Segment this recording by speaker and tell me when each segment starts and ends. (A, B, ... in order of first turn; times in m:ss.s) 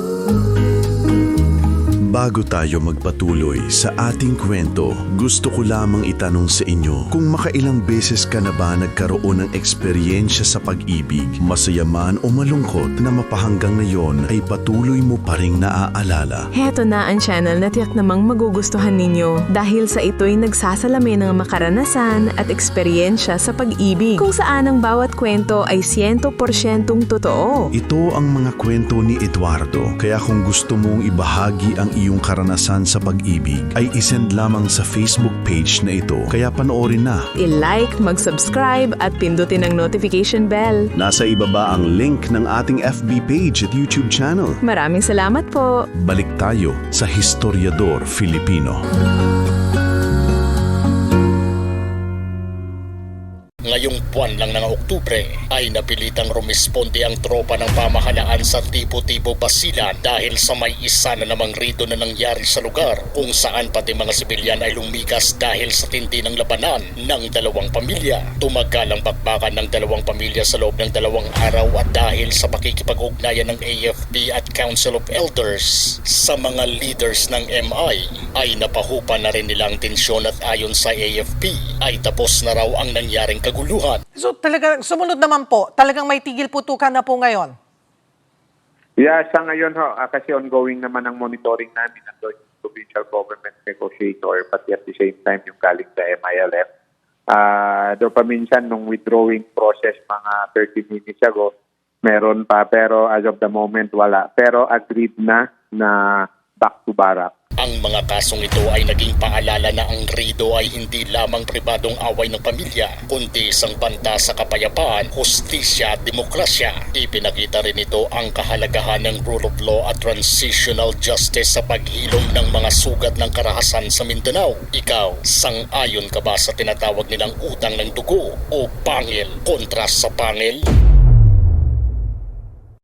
0:02.1-0:16.5 A
0:16.6-0:27.7 B
0:27.8-0:37.3 A
0:37.4-0:40.9 B
0:41.0-0:44.6 A
0:44.6-0:45.8 B
0:46.0-0:48.8 A
0:53.6-1:24.0 C
1:24.1-1:27.6 D
1:29.0-1:36.7 E
1:37.3-1:47.3 E
1:47.6-2:10.6 C